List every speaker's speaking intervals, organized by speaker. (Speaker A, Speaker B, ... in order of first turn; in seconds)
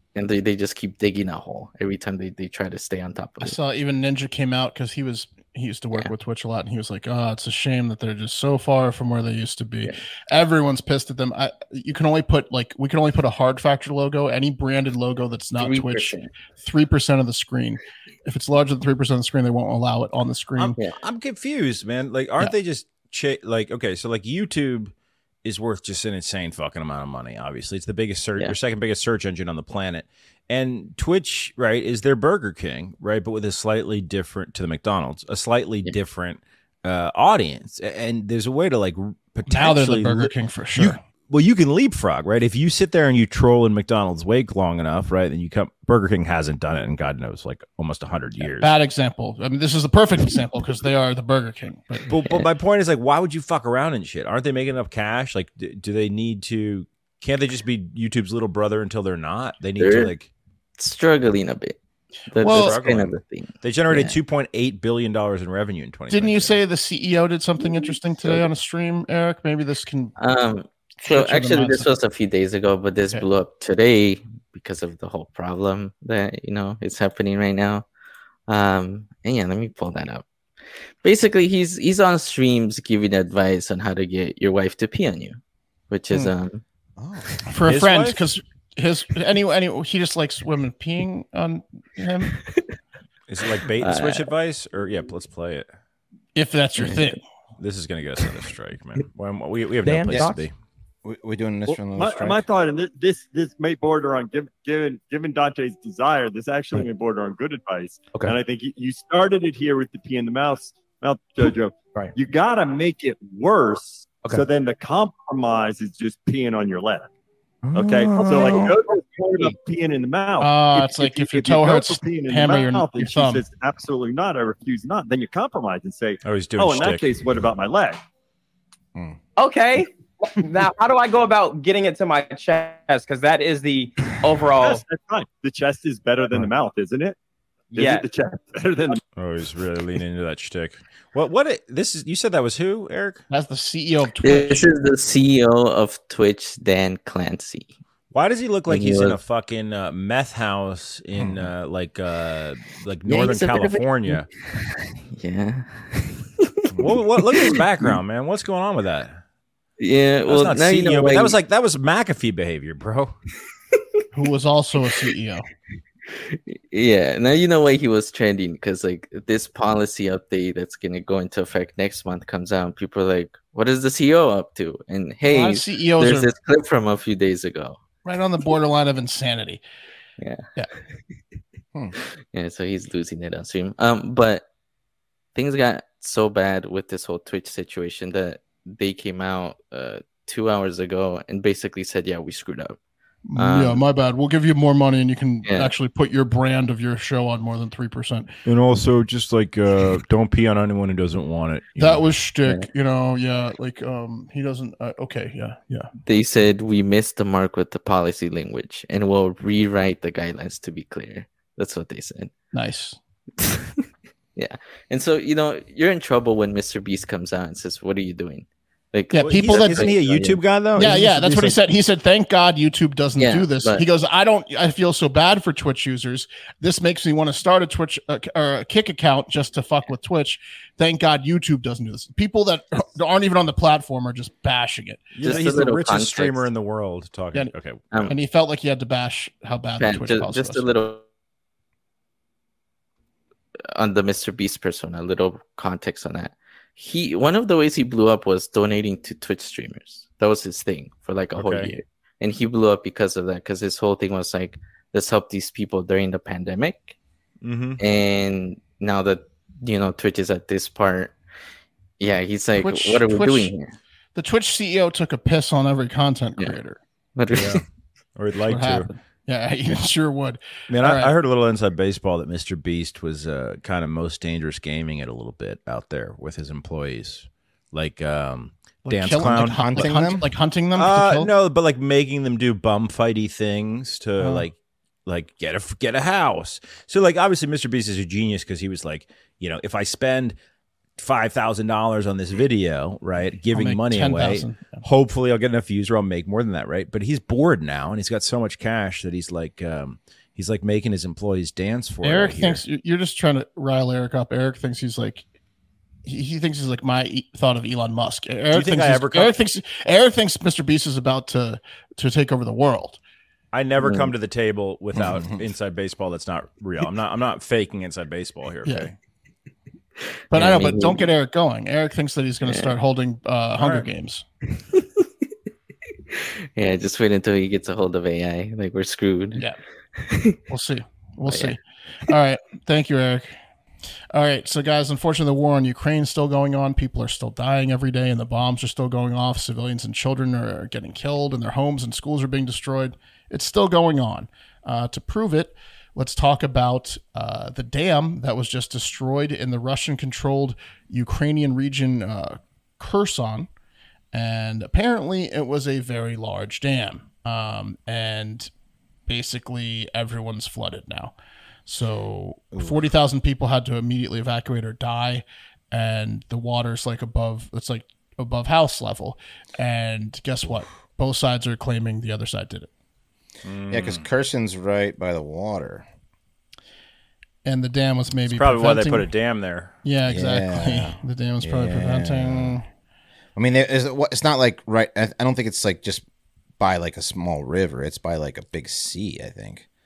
Speaker A: 0.1-3.6, 15.6-16.3, 59.8-60.1, 60.8-61.8, 62.3-64.2, 70.2-77.9, 78.5-80.2, 81.0-85.4, 85.9-86.6, 93.8-94.3, 96.8-97.2, 144.2-147.7, 148.7-149.2, 153.1-154.2, 155.1-157.9, 159.8-161.4, 166.3-177.8, 180.2-180.4, 182.3-184.4, 185.3-192.8, 193.4-193.8, 195.4-195.7, 206.1-212.3, 214.4-220.4, 223.2-223.8, 235.2-236.5, 239.8-241.0, 243.7-256.9, 257.8-261.1, 262.0-263.7, 267.1-267.6, 313.8-314.1, 320.3-321.1, 322.4-322.7, 326.6-329.4, 330.1-330.4, 331.3-331.6
Speaker B: 3.4-20.7, 39.5-41.0, 48.4-52.1, 62.4-62.8, 66.1-70.1, 71.0-71.9, 87.5-92.4, 96.4-97.2, 118.3-118.7, 120.4-123.4, 143.3-144.7, 164.1-165.5, 175.2-176.3, 178.0-179.6, 193.2-198.3, 201.8-205.9, 212.5-213.0, 219.1-219.9, 220.8-235.3, 238.1-240.6, 262.6-263.5, 264.1-266.8, 268.5-271.1, 278.9-281.3, 284.2-284.5, 293.5-294.8, 302.0-305.2, 306.0-313.0, 318.6-318.9, 320.3-324.2, 330.5-333.4, 334.1-353.5, 354.1-358.5, 359.1-361.1, 361.6-372.7, 377.4-379.1, 379.8-382.6
Speaker C: 20.6-24.9, 25.4-48.7, 52.1-60.3, 62.4-66.5, 87.6-88.2, 93.3-95.7, 97.6-100.5, 126.2-127.1, 139.2-143.2, 148.1-154.3, 156.8-159.2, 160.3-163.1, 198.4-202.0, 219.1-221.6, 235.1-238.1, 251.4-251.7, 257.4-257.8, 267.3-267.6, 268.1-268.9, 270.7-279.9, 280.7-284.5, 285.1-290.4, 291.0-302.6, 308.5-309.4, 313.5-318.9, 323.6-323.9, 373.4-374.0, 378.2-379.7
Speaker D: 87.0-87.3, 101.0-102.4, 151.2-151.5, 279.3-280.3, 314.9-315.4, 362.5-362.8, 373.7-375.9, 380.1-382.6, 383.4-386.0, 386.6-389.6
Speaker E: 100.1-100.3, 129.4-134.8, 137.7-138.0
Speaker F: 101.8-117.1, 117.7-128.0, 134.6-137.2, 137.7-139.0